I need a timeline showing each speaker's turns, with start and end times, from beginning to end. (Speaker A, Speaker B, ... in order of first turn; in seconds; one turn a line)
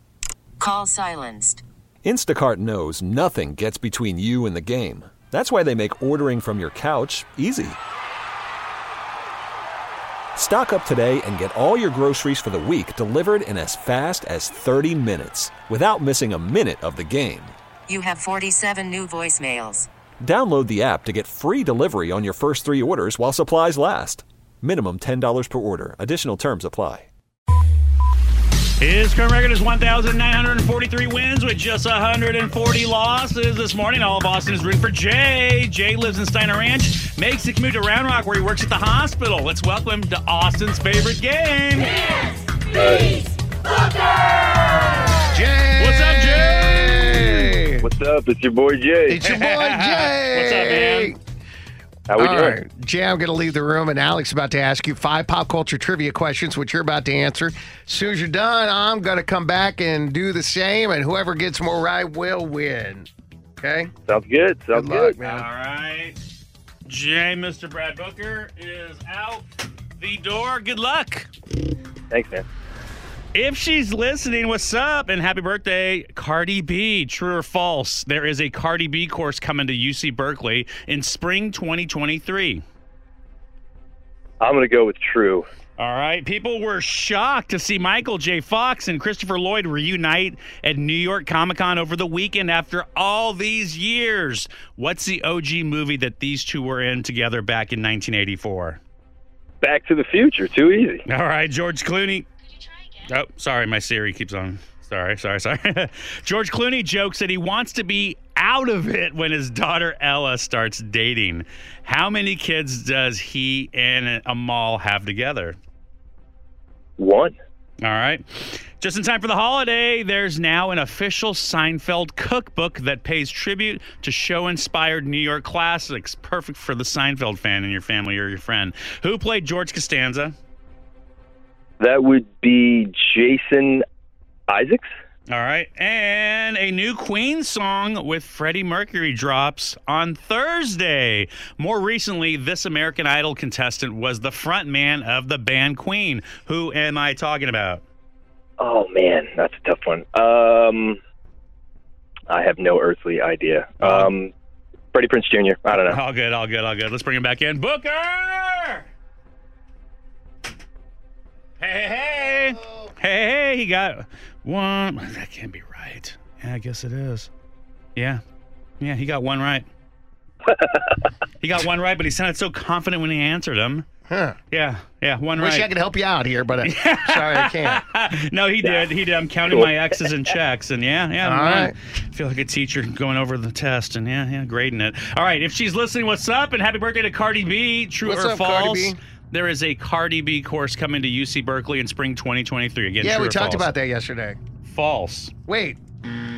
Speaker A: 0.6-1.6
Speaker B: 2.0-7.8
Speaker B: 10.3-17.6
Speaker A: 17.9-19.9
Speaker B: 20.2-27.1
Speaker C: 28.8-41.9
Speaker D: 42.7-43.2
Speaker E: 45.3-47.9
Speaker C: 45.8-46.9
Speaker D: 47.8-49.2
Speaker E: 49.1-51.2
Speaker C: 49.3-51.1
Speaker D: 52.1-52.6
Speaker E: 52.2-63.9
Speaker D: 64.1-65.2
Speaker E: 64.7-65.5
Speaker C: 65.2-66.2
Speaker C: 66.9-69.4
Speaker C: 70.0-71.3
Speaker D: 72.1-72.5
Speaker C: 73.3-82.6
Speaker D: 84.4-85.5
Speaker C: 85.8-98.8
Speaker D: 99.6-101.0
Speaker C: 101.1-102.3
Speaker C: 103.1-115.6
Speaker D: 117.0-117.3
Speaker C: 117.8-130.3
Speaker D: 131.8-133.8
Speaker D: 134.5-134.9
Speaker C: 135.3-147.8
Speaker D: 148.6-151.0
Speaker D: 152.3-154.3
Speaker D: 154.9-156.0
Speaker C: 155.9-158.9
Speaker C: 161.6-167.3
Speaker C: 168.0-168.2
Speaker C: 168.8-169.7
Speaker D: 170.5-170.8
Speaker C: 171.4-173.9
Speaker E: 174.1-174.4
Speaker C: 174.5-175.7
Speaker E: 175.3-177.8
Speaker C: 176.6-193.7
Speaker E: 181.2-181.7
Speaker E: 188.0-189.0
Speaker E: 193.0-194.4
Speaker C: 194.6-195.3
Speaker E: 195.5-195.8